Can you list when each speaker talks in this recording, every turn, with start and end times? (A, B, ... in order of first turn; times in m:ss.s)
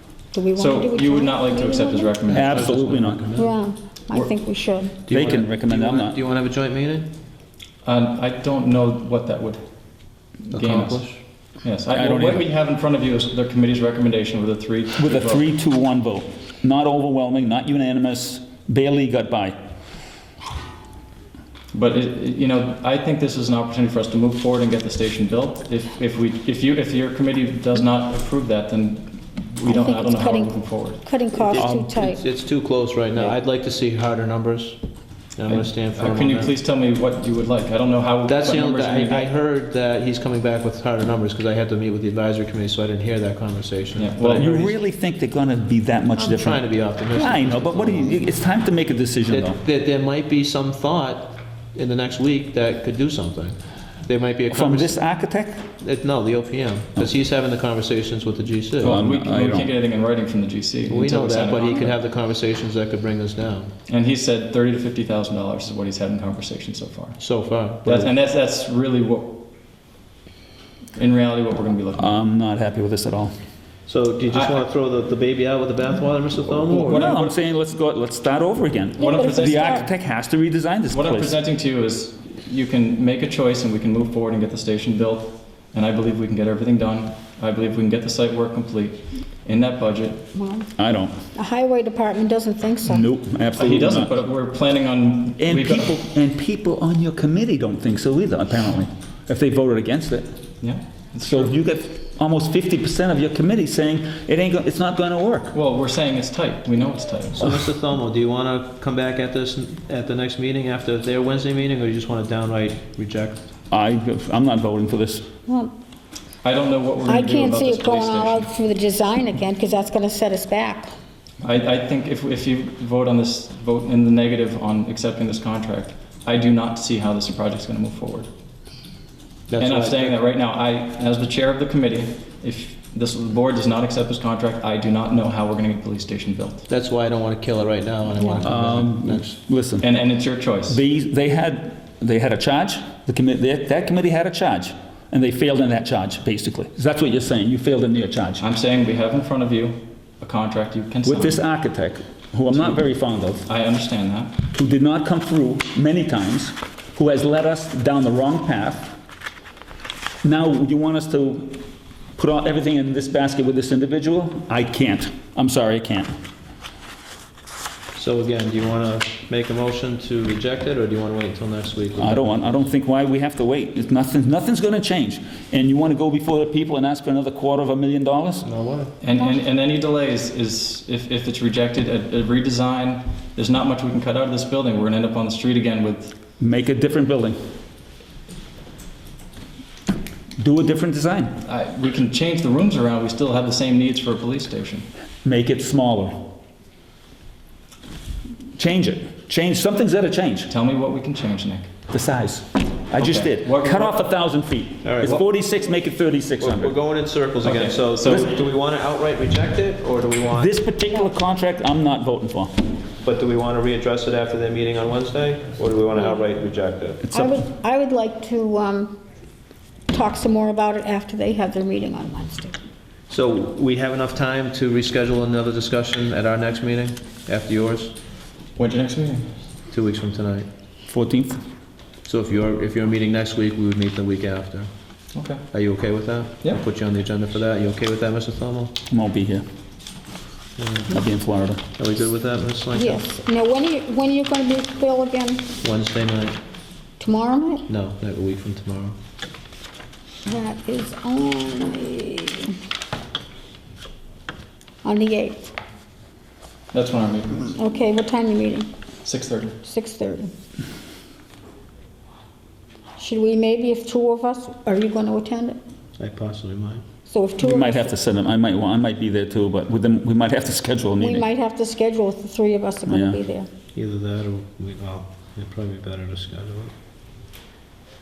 0:00.3-0:02.2 A
0:00.5-0:02.8 B
0:02.3-0:03.6 C
0:02.3-0:03.2 D
0:03.4-0:05.0 A
0:05.0-0:07.1 C
0:05.1-0:06.2 D
0:07.8-0:09.6 B
0:10.4-0:11.0 B
0:10.5-0:11.2 C
0:11.6-0:15.4 B
0:11.9-0:12.4 D
0:15.0-0:19.6 D
0:21.7-0:31.0 B
0:29.6-0:32.2 A
0:31.4-0:34.8 C
0:31.6-0:31.9 D
0:35.4-0:36.5 C
0:35.5-0:39.3 B
0:38.3-0:44.8 C
0:44.0-0:44.7 B
0:44.3-0:49.6 D
0:46.2-0:48.2 C
0:49.3-0:55.0 C
0:54.5-0:55.6 D
0:55.8-0:59.0 C
0:58.8-1:02.0 B
0:58.8-0:59.7 D
1:00.9-1:03.7 C
1:03.9-1:07.2 B
1:07.2-1:08.1 C
1:07.8-1:09.4 B
1:11.0-1:12.1 B
1:12.0-1:13.3 D
1:13.9-1:17.3 C
1:14.3-1:14.6 B
1:16.6-1:17.2 B
1:16.7-1:21.4 D
1:19.0-1:19.9 A
1:19.0-1:19.9 B
1:20.9-1:30.2 B
1:30.4-1:30.7 A
1:30.8-1:31.1 D
1:31.4-1:33.1 A
1:32.8-1:34.2 D
1:33.6-1:36.0 B
1:35.4-1:40.3 D
1:40.6-1:41.5 B
1:41.2-1:45.6 D
1:45.5-1:47.6 B
1:47.4-1:53.4 C
1:53.7-1:55.3 D
1:55.5-1:55.7 A
1:56.4-1:58.5 B
1:57.1-2:00.9 A
2:01.4-2:08.3 B
2:09.5-2:10.2 C
2:09.6-2:16.6 B
2:16.7-2:19.4 C
2:18.4-2:19.9 D
2:19.8-2:20.8 B
2:20.7-2:28.4 D
2:28.4-2:31.4 B
2:31.0-2:33.5 D
2:32.5-2:32.8 B
2:33.5-2:34.4 B
2:34.5-2:38.9 D
2:40.2-2:41.6 D
2:42.2-2:46.1 D
2:48.0-2:52.4 C
2:52.0-2:58.5 D
2:58.4-2:58.9 C
2:59.0-3:06.2 B
3:06.4-3:07.4 D
3:10.4-3:11.4 D
3:11.4-3:14.9 B
3:15.2-3:16.3 D
3:18.6-3:20.5 D
3:20.5-3:21.7 B
3:21.9-3:26.7 D
3:23.0-3:24.0 B
3:24.8-3:25.2 C
3:26.4-3:30.6 C
3:27.4-3:28.0 B
3:28.0-3:28.3 D
3:30.4-3:32.5 D
3:33.0-3:37.0 C
3:37.1-3:37.4 D
3:37.1-3:39.0 A
3:39.9-3:42.6 A
3:43.1-3:47.9 C
3:48.6-3:49.4 B
3:49.7-3:50.5 C
3:50.9-3:51.4 D
3:52.0-3:54.7 C
3:55.1-3:55.4 B
3:55.5-3:58.7 C
3:58.9-3:59.4 D
4:00.6-4:01.0 C
4:00.9-4:01.6 D
4:01.8-4:03.0 C
4:02.7-4:05.5 A
4:05.6-4:06.4 C
4:07.0-4:07.7 A
4:07.7-4:09.0 C
4:10.2-4:12.6 A
4:14.8-4:15.5 A
4:16.7-4:17.6 B
4:17.6-4:18.7 A
4:19.0-4:19.6 B
4:19.6-4:20.3 A
4:23.0-4:25.6 A
4:26.0-4:26.8 C
4:27.1-4:27.9 A
4:27.4-4:31.3 D
4:31.0-4:33.5 A
4:32.9-4:33.2 D
4:33.7-4:36.7 C